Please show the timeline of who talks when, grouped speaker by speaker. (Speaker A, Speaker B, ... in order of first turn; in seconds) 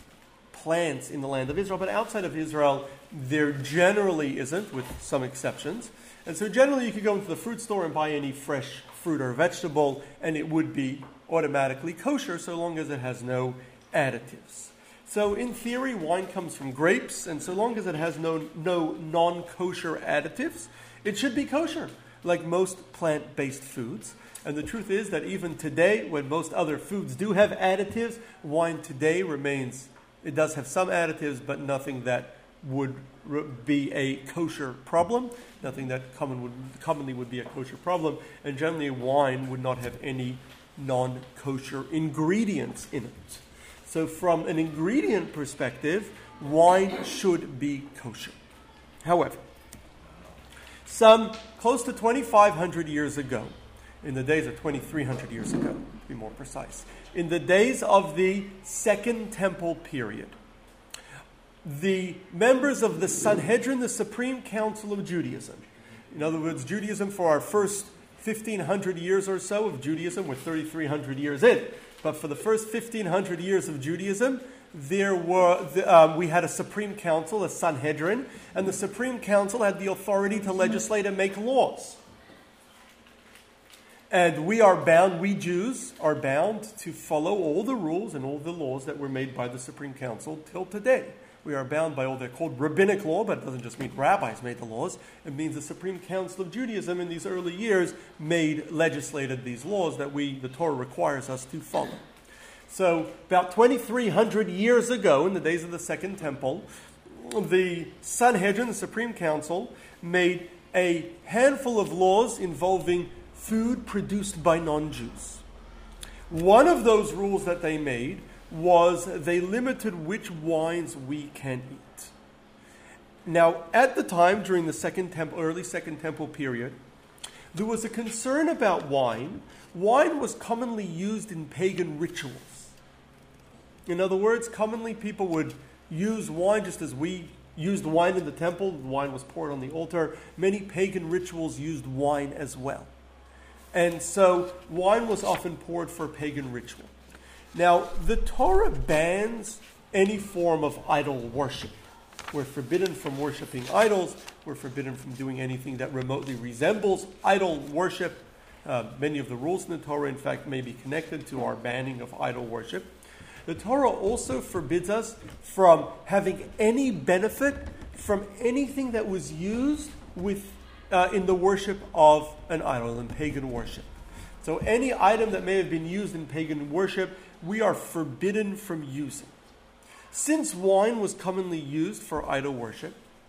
Speaker A: 0.5-48.4, 49.0-49.4, 50.9-60.4, 61.6-82.0, 84.1-102.0, 102.7-115.4, 116.3-122.1, 123.2-126.8, 127.5-132.7, 133.9-142.9, 143.7-146.9, 147.5-151.7, 152.3-162.9, 163.4-173.9, 174.4-179.3, 180.1-183.0